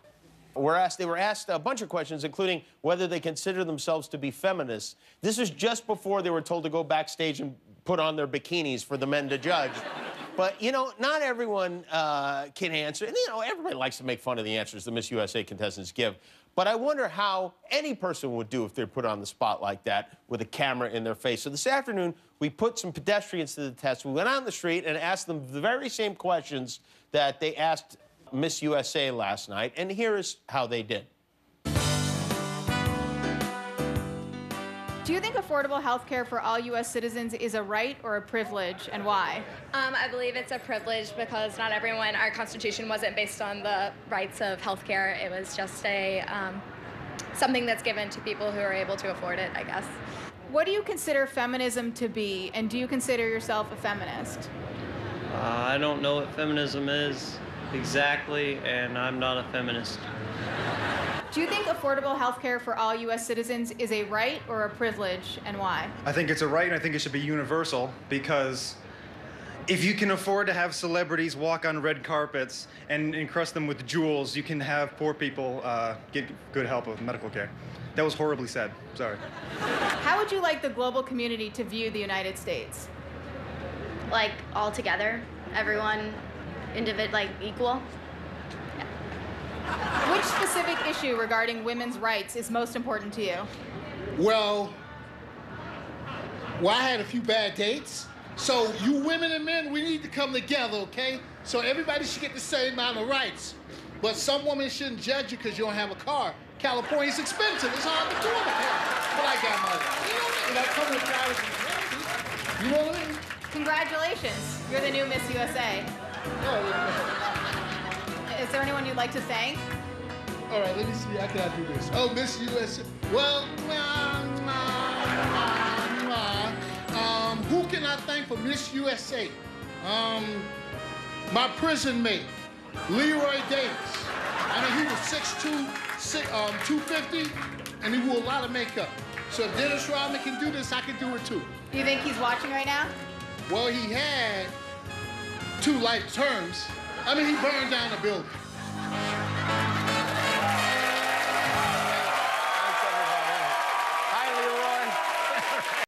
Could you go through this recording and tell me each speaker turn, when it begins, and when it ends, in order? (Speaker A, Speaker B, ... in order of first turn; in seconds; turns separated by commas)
Speaker A: 0.6-9.8, Speaker A: 10.4-31.1, Speaker B: 35.0-39.5, Speaker C: 39.7-46.6, Speaker C: 47.4-50.0, Speaker B: 50.5-54.5, Speaker D: 55.3-60.1, Speaker B: 61.3-66.0, Speaker E: 66.0-68.8, Speaker E: 69.7-79.2, Speaker B: 80.0-82.9, Speaker F: 84.1-87.9, Speaker B: 90.0-93.5, Speaker G: 94.2-94.8, Speaker G: 96.6-113.2, Speaker B: 113.5-115.9, Speaker G: 116.4-117.2, Speaker B: 118.3-119.7, Speaker G: 120.5-130.5, Speaker G: 131.3-132.3, Speaker G: 132.9-141.5, Speaker B: 141.7-142.9, Speaker G: 143.5-144.6, Speaker G: 145.6-148.4, Speaker A: 152.5-153.6, Speaker A: 154.1-155.0